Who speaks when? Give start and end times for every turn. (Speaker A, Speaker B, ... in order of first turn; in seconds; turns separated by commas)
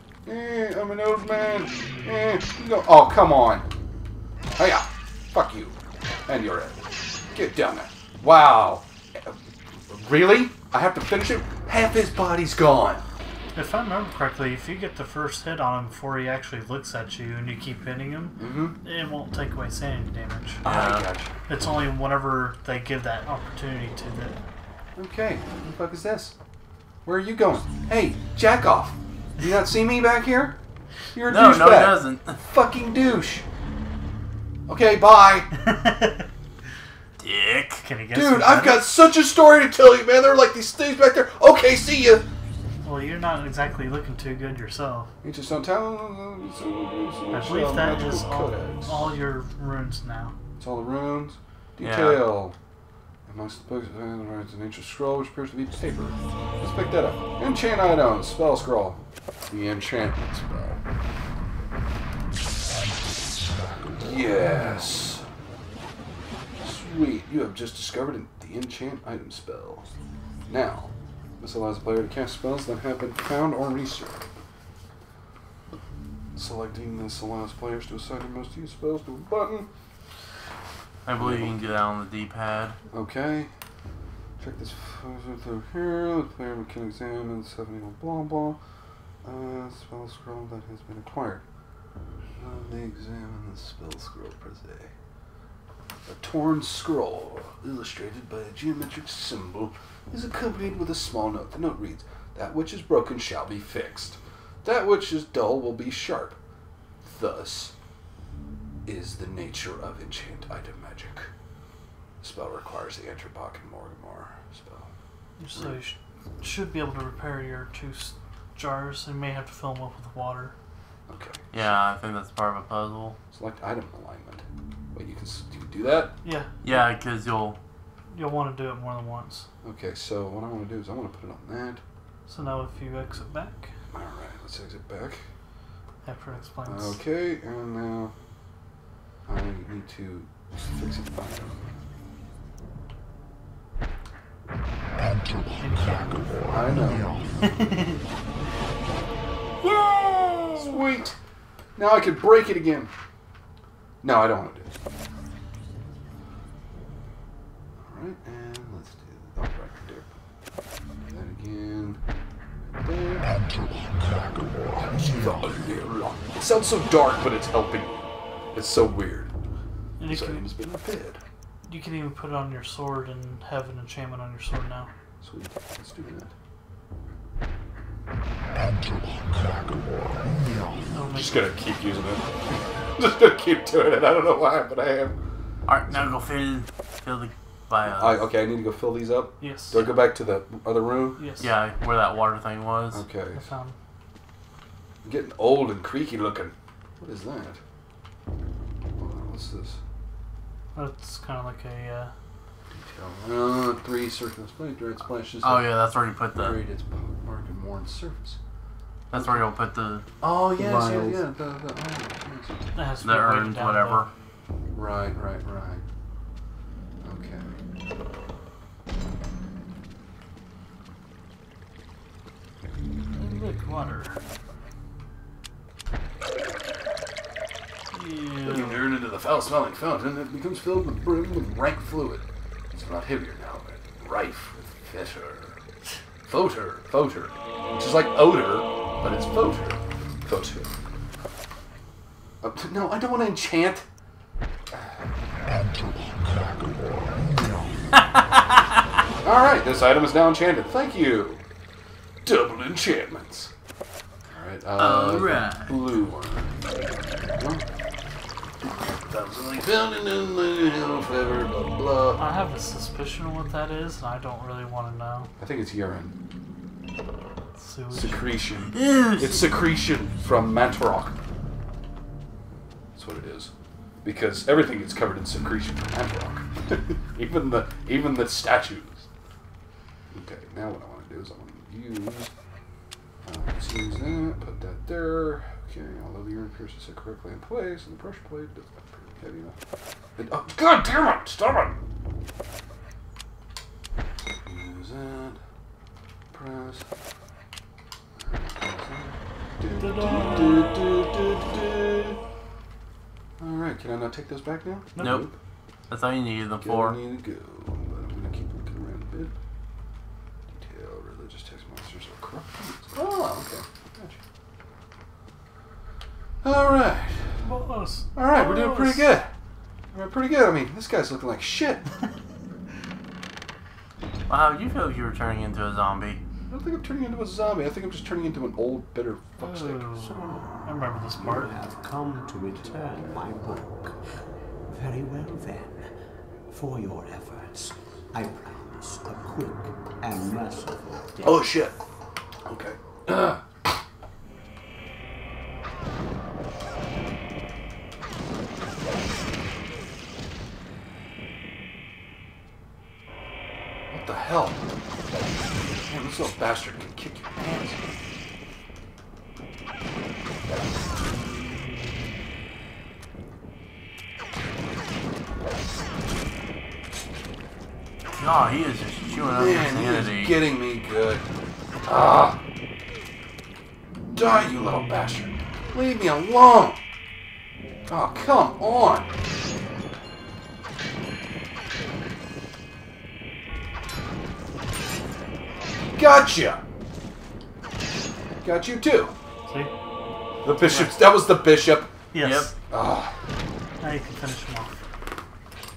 Speaker A: 0.2-3.6, Speaker A: 4.5-5.8, Speaker A: 6.3-6.8, Speaker A: 7.3-9.4, Speaker A: 9.9-13.1, Speaker B: 13.5-20.6, Speaker A: 18.4-18.8, Speaker A: 20.6-21.3, Speaker C: 20.6-21.1, Speaker B: 21.5-24.4, Speaker A: 24.9-26.3, Speaker A: 27.0-30.6, Speaker A: 31.1-33.4, Speaker C: 31.3-32.4, Speaker A: 34.7-35.5, Speaker B: 35.7-36.1, Speaker C: 37.2-37.8, Speaker B: 37.8-38.8, Speaker A: 38.1-42.3, Speaker B: 42.8-45.1, Speaker A: 45.2-49.1, Speaker B: 47.3-50.3, Speaker A: 50.6-52.5, Speaker C: 51.8-52.3, Speaker A: 53.3-60.8, Speaker A: 63.9-65.2, Speaker A: 66.6-69.9, Speaker A: 70.5-74.3, Speaker A: 76.3-79.7, Speaker C: 81.0-82.8, Speaker A: 81.2-81.6, Speaker A: 82.9-83.5, Speaker A: 84.4-88.6, Speaker A: 89.2-91.4, Speaker A: 92.4-94.9, Speaker A: 96.0-106.4, Speaker A: 107.0-107.7, Speaker A: 108.8-111.3, Speaker A: 112.2-114.9, Speaker B: 115.4-120.5, Speaker A: 115.5-115.8, Speaker A: 121.1-121.7, Speaker C: 121.5-123.2, Speaker A: 123.3-126.1, Speaker B: 126.2-126.7, Speaker C: 126.6-127.6, Speaker B: 128.1-129.5, Speaker A: 129.6-131.8, Speaker B: 132.3-133.7, Speaker A: 133.9-135.2, Speaker B: 136.0-137.0, Speaker A: 136.7-138.1, Speaker A: 139.3-141.7, Speaker B: 145.6-146.8, Speaker A: 146.5-147.2, Speaker B: 147.4-148.0, Speaker B: 149.8-150.6, Speaker A: 150.5-151.2, Speaker A: 151.8-152.9, Speaker A: 154.0-154.8, Speaker A: 157.8-160.1, Speaker A: 161.0-162.0, Speaker A: 162.8-163.4, Speaker A: 164.3-169.3, Speaker B: 170.0-170.5, Speaker A: 170.1-171.2, Speaker B: 171.6-174.9, Speaker A: 175.2-176.3, Speaker B: 180.9-181.5, Speaker A: 181.1-185.2, Speaker C: 185.7-188.2, Speaker A: 187.9-191.2, Speaker B: 189.4-189.8, Speaker B: 191.2-191.5, Speaker C: 191.4-193.0, Speaker A: 192.9-193.5, Speaker B: 193.3-193.7, Speaker A: 195.0-197.6, Speaker A: 198.9-199.8, Speaker B: 200.7-202.1, Speaker A: 202.7-205.8, Speaker C: 205.4-206.6, Speaker A: 206.3-208.4, Speaker C: 209.1-210.1, Speaker A: 209.1-209.4, Speaker A: 210.2-212.7, Speaker D: 210.8-211.1, Speaker B: 212.7-214.1, Speaker C: 213.0-214.1, Speaker A: 214.7-215.8, Speaker A: 217.0-217.6, Speaker B: 223.1-224.2, Speaker B: 227.9-229.0, Speaker A: 228.4-235.6, Speaker A: 236.2-240.7, Speaker A: 242.4-243.8, Speaker A: 244.7-245.0, Speaker A: 249.2-251.4, Speaker A: 252.2-253.5, Speaker A: 254.3-257.6, Speaker C: 254.8-255.7, Speaker A: 258.6-262.2, Speaker B: 262.1-265.3, Speaker A: 265.4-266.1, Speaker B: 267.6-268.3, Speaker A: 267.9-271.1, Speaker C: 268.7-269.5, Speaker A: 272.9-273.5, Speaker A: 274.0-279.1, Speaker A: 280.1-282.3, Speaker A: 283.2-289.6, Speaker A: 290.2-291.8, Speaker A: 294.2-295.4, Speaker A: 296.3-296.9, Speaker A: 298.2-302.2, Speaker B: 299.7-301.2, Speaker A: 303.4-305.4, Speaker B: 304.9-305.2, Speaker C: 305.0-305.3, Speaker C: 305.9-307.0, Speaker A: 306.6-309.3, Speaker A: 310.5-314.2, Speaker A: 316.4-317.4, Speaker B: 317.4-319.1, Speaker A: 318.1-319.3, Speaker A: 319.9-321.8, Speaker C: 324.3-326.2, Speaker A: 326.5-329.9, Speaker D: 329.4-334.0, Speaker B: 329.5-330.1, Speaker B: 330.6-331.5, Speaker D: 334.7-335.9, Speaker D: 336.5-341.7, Speaker A: 341.2-341.8, Speaker A: 342.4-343.8, Speaker A: 353.9-354.7, Speaker A: 355.8-357.8, Speaker C: 368.1-370.4, Speaker A: 369.2-371.2, Speaker A: 371.9-372.4, Speaker A: 374.1-376.8, Speaker A: 377.9-379.1, Speaker A: 385.9-386.6, Speaker A: 388.4-389.1, Speaker A: 390.4-391.9, Speaker B: 390.6-390.9, Speaker B: 392.1-392.5, Speaker C: 392.2-392.5, Speaker A: 392.7-393.1, Speaker B: 393.8-394.8